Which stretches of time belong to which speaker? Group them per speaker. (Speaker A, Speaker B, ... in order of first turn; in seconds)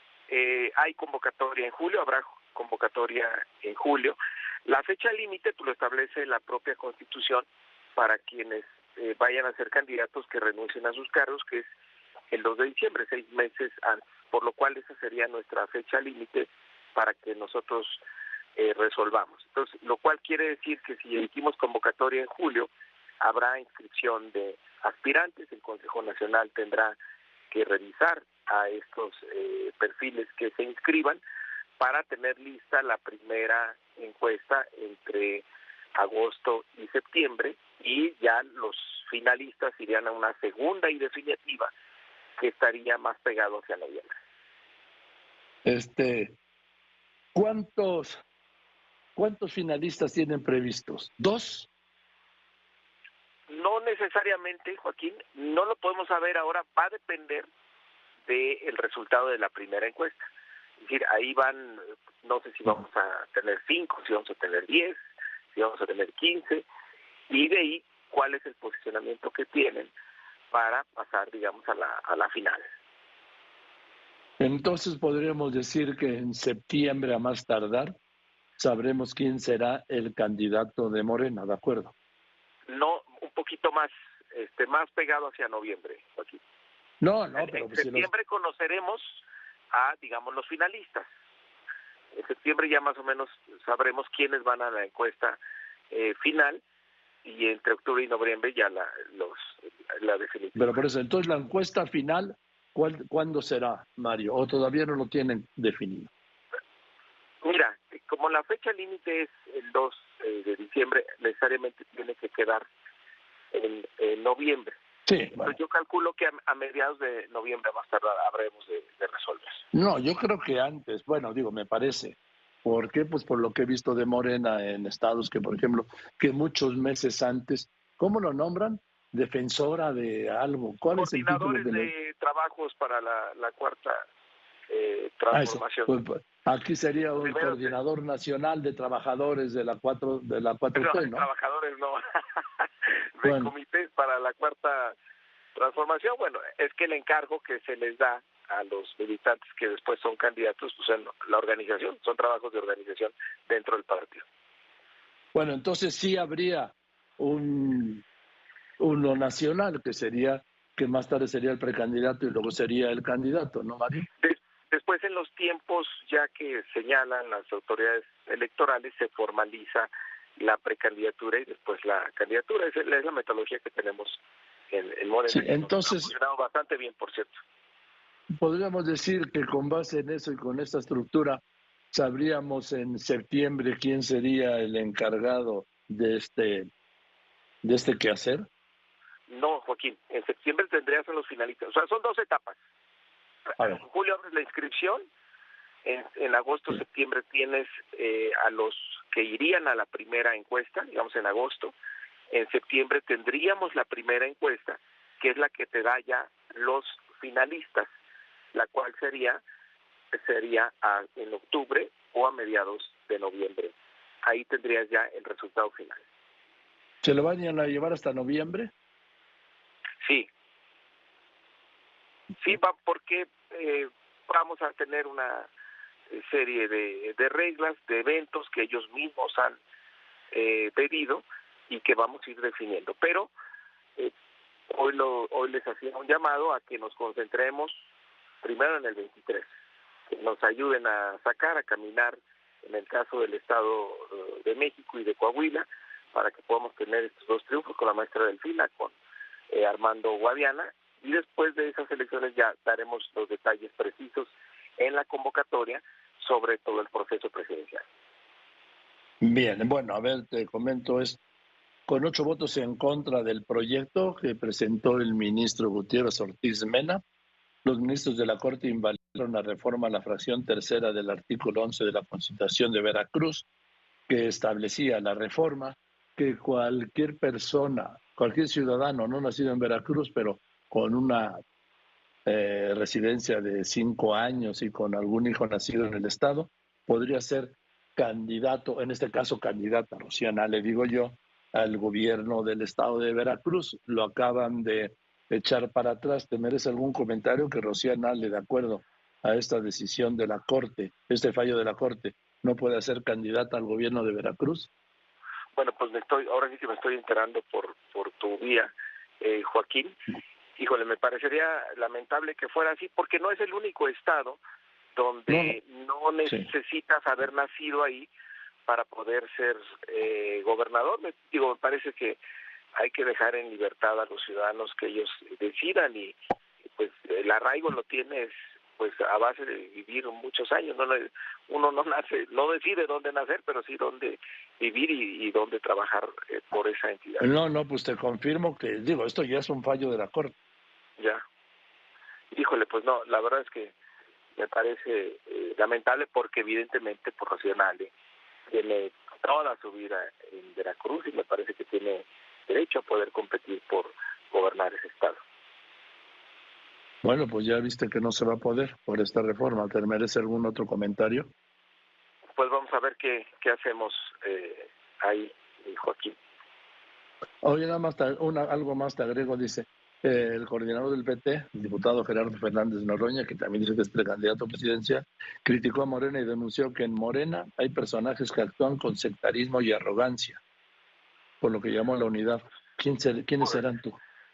Speaker A: 0.3-11.7, 12.3-18.0, 18.6-22.7, 23.2-27.0, 27.5-31.2, 31.8-35.5, 36.0-41.7, 42.4-44.1, 53.5-57.5, 58.3-60.2, 60.8-65.0, 65.5-66.7, 67.3-69.9, 70.5-72.7, 82.7-86.4, 87.3-89.2, 89.7-91.1, 92.1-95.4, 95.9-96.6, 97.2-100.8, 107.4-112.7, 113.5-114.8, 115.4-119.6, 130.9-134.0, 134.7-135.9, 137.2-137.7, 140.7-145.0, 145.6-154.3, 164.2-174.2, 174.7-177.3, 189.3-192.6, 193.5-195.0, 195.8-201.7, 202.3-207.9, 208.5-209.4, 210.1-213.7, 214.2-216.0, 220.0-220.3, 222.4-225.5, 226.1-229.6, 230.3-233.3, 234.7-237.8, 238.4-239.5, 240.1-248.9, 249.5-257.9, 305.6-309.9, 310.6-314.4, 315.0-318.1, 318.7-322.2, 322.8-326.2, 326.8-337.3, 342.3-343.8, 344.4-347.9, 348.5-355.2, 362.4-366.2
Speaker B: 45.6-46.4, 47.4-48.2, 49.2-51.7, 74.4-77.9, 78.6-81.9, 87.0-88.1, 100.5-106.1, 115.1-115.5, 119.7-131.9, 135.3-141.3, 143.2-143.5, 155.3-158.0, 158.8-164.1, 175.3-176.1, 178.4-181.4, 181.9-186.7, 187.6-188.4, 217.0-218.7, 259.2-261.2, 261.9-267.0, 267.6-273.5, 274.1-281.4, 282.3-304.7, 315.3-315.6, 337.2-340.4, 357.0-361.3, 367.4-380.4, 381.4-384.0